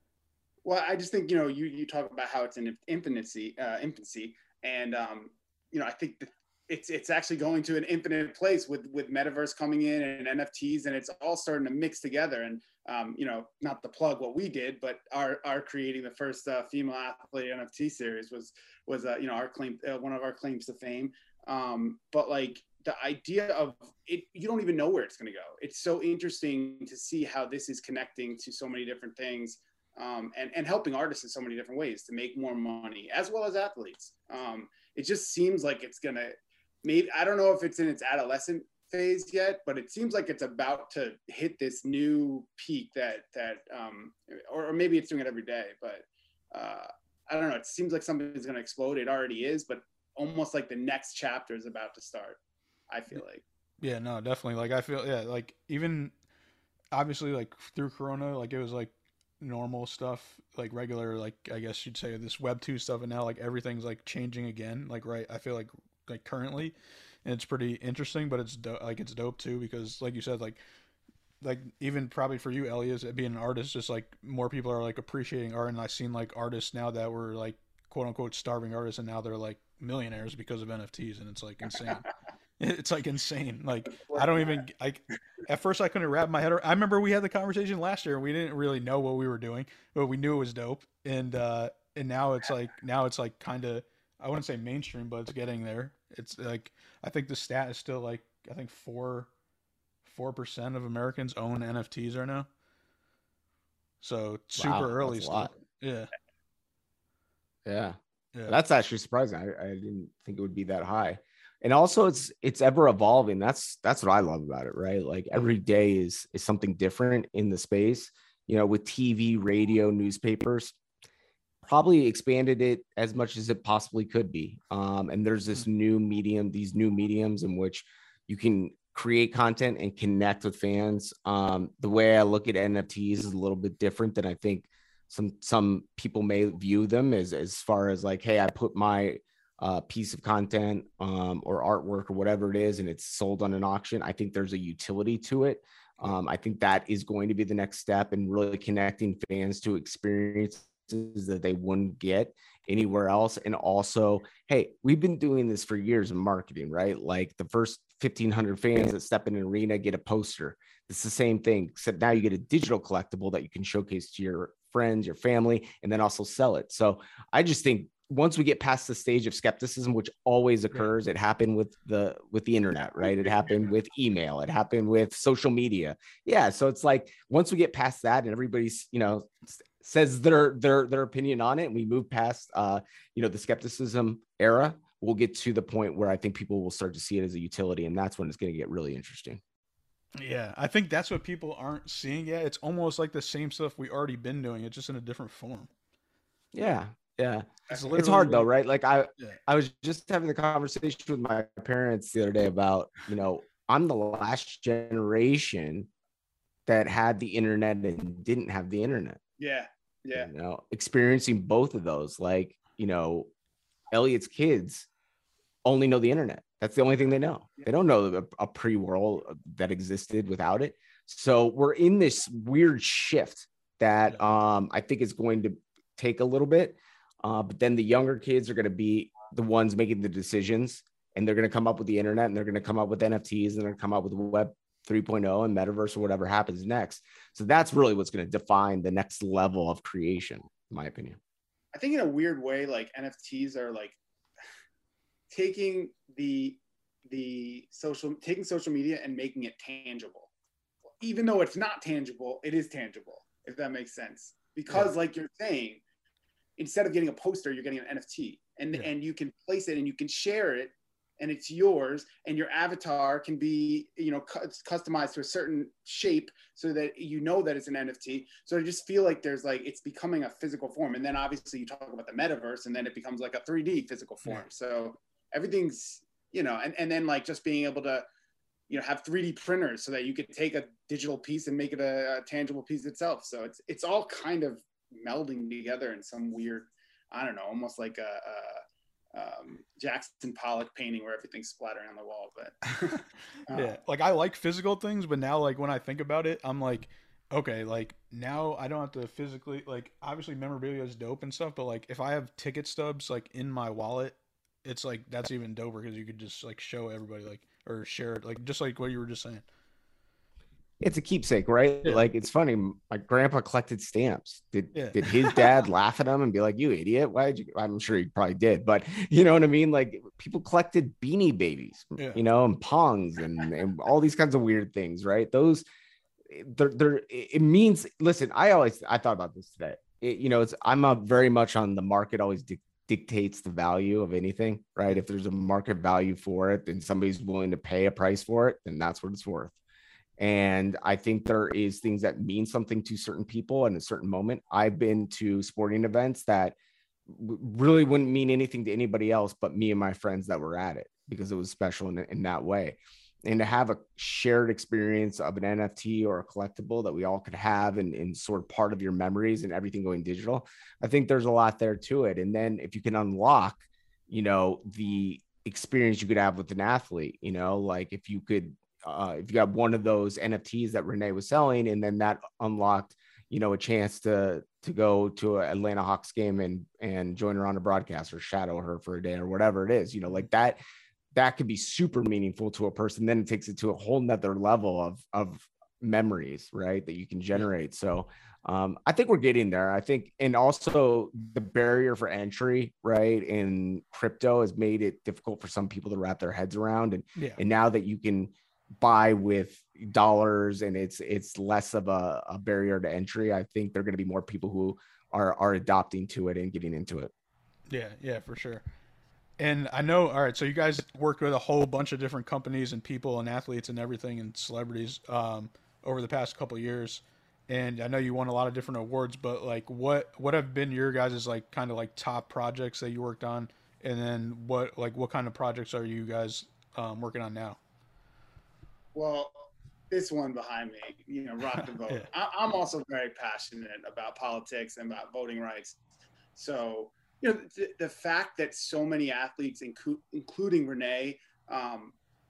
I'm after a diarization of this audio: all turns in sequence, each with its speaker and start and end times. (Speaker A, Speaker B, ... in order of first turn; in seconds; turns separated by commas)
Speaker A: 0.6-52.4, Speaker A: 52.9-53.4, Speaker B: 53.8-56.1, Speaker B: 56.9-66.7, Speaker B: 67.2-70.6, Speaker B: 71.4-82.1, Speaker B: 82.6-99.3, Speaker A: 84.1-84.6, Speaker B: 100.0-102.5, Speaker B: 104.0-106.1, Speaker C: 104.5-105.5, Speaker C: 107.6-120.8, Speaker C: 121.6-189.4, Speaker B: 190.2-195.7, Speaker C: 196.5-205.9, Speaker B: 197.7-198.5, Speaker C: 206.7-209.2, Speaker A: 209.4-210.3, Speaker C: 210.1-213.3, Speaker C: 213.9-214.9, Speaker C: 215.6-241.2, Speaker A: 241.7-244.0, Speaker A: 245.3-250.3, Speaker A: 251.0-255.8, Speaker A: 256.6-278.0, Speaker A: 278.7-293.8, Speaker B: 293.5-309.4, Speaker C: 310.8-325.6, Speaker B: 314.7-315.5, Speaker B: 322.0-322.2, Speaker C: 326.3-339.6, Speaker C: 340.2-346.6, Speaker C: 347.1-380.6, Speaker C: 381.1-407.1, Speaker B: 397.1-397.4, Speaker B: 407.7-408.6, Speaker B: 409.4-427.6, Speaker A: 428.9-435.8, Speaker A: 436.3-441.9